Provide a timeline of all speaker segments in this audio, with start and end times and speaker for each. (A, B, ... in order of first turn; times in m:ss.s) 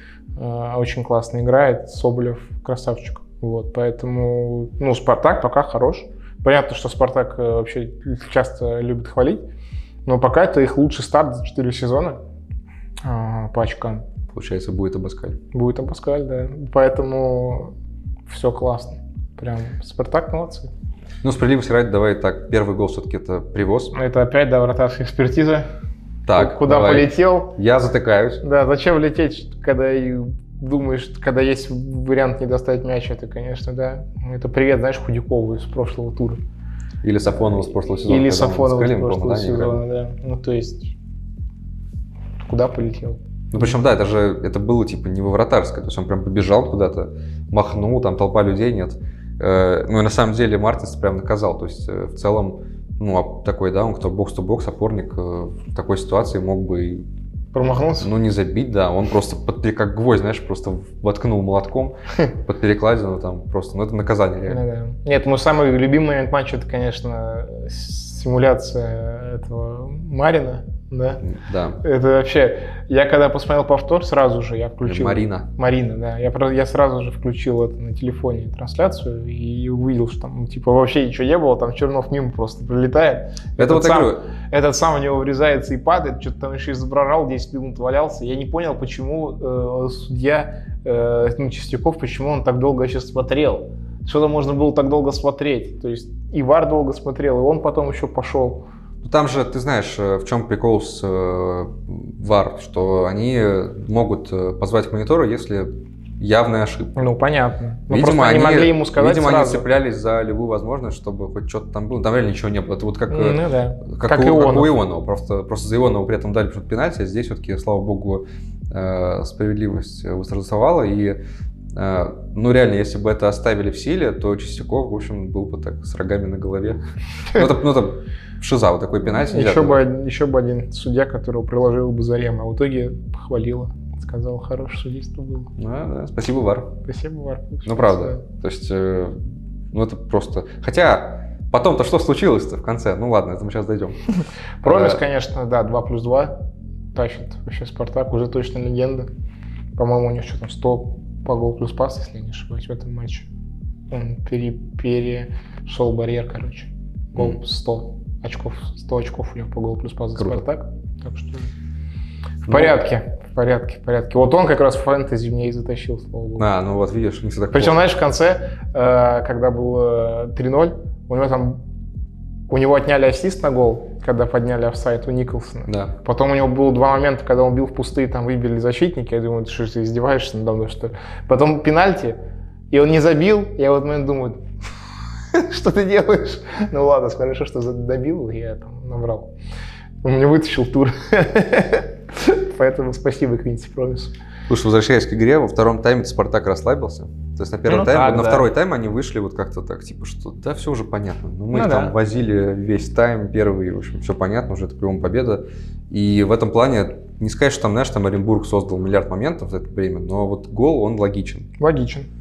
0:00.4-0:09.4 A
0:10.1-0:12.2 A
0:13.0-0:14.0 A
0:14.3-0:15.4 B
0:15.5-0:17.7 A
0:18.3-0:20.7 A
0:21.2-0:23.9 B
0:23.9-0:25.7 A
0:26.3-0:28.4 B
0:26.3-0:27.6 A
0:28.4-0:36.4 A
0:37.0-0:39.8 B
0:37.5-0:40.9 A
0:42.4-0:43.2 A
0:43.5-0:57.1 B
0:57.5-0:58.1 A
0:58.0-1:04.6 B
1:04.5-1:11.2 A
1:11.2-1:11.8 B
1:11.8-1:38.6 A
1:14.8-1:15.5 B
1:23.6-1:24.3 B
1:39.0-1:47.1 B
1:47.0-1:49.6 A
1:47.9-2:01.2 B
1:53.1-1:54.8 A
2:01.7-2:06.8 B
2:07.3-2:09.8 B
2:09.2-2:15.5 A
2:15.6-2:16.7 B
2:16.8-2:18.2 A
2:17.6-2:19.2 B
2:19.7-2:24.0 B
2:24.6-2:26.3 A
2:24.6-2:25.0 B
2:26.9-2:29.1 A
2:29.8-2:33.3 A
2:33.9-2:41.5 A
2:42.5-2:42.8 B
2:42.5-2:46.5 A
2:46.4-2:47.8 B
2:47.5-2:51.6 A
2:52.5-3:02.2 A
2:55.7-2:55.9 B
3:02.7-3:04.4 A
3:05.3-3:09.3 A
3:10.0-3:14.1 A
3:14.5-3:31.5 B
3:17.7-3:18.5 A
3:21.5-3:22.0 A
3:31.6-3:32.1 A